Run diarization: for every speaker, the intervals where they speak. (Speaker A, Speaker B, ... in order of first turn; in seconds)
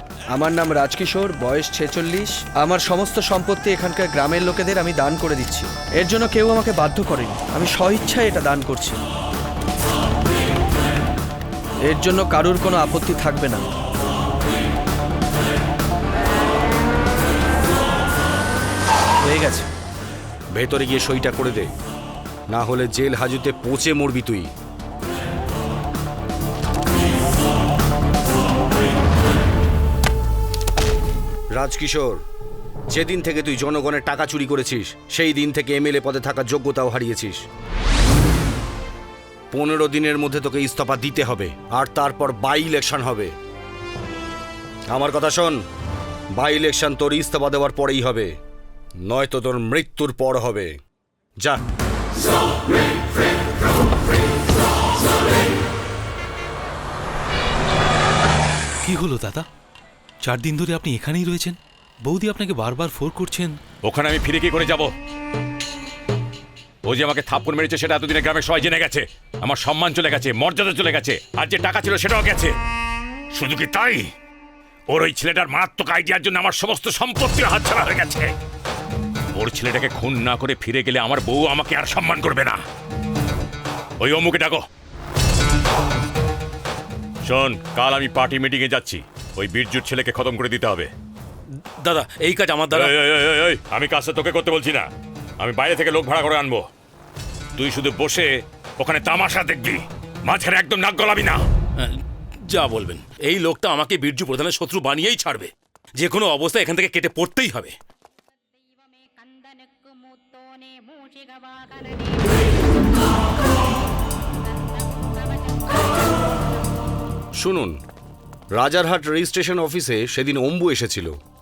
Speaker A: 0.3-9.0, 11.9-13.7, 19.3-19.7
Speaker B: 20.6-21.7, 22.5-24.5, 31.6-32.2, 32.9-37.4, 39.5-43.3, 44.9-45.6, 46.4-48.3, 49.1-50.8, 117.4-117.7, 118.5-121.1
Speaker C: 58.9-59.5, 60.2-63.6
Speaker D: 63.8-64.9, 66.9-72.5, 73.3-74.0, 74.9-78.3, 79.4-82.6, 84.0-84.6, 87.3-90.9, 92.7-94.9, 95.4-96.7, 97.6-101.4
Speaker E: 91.8-92.9, 101.8-107.7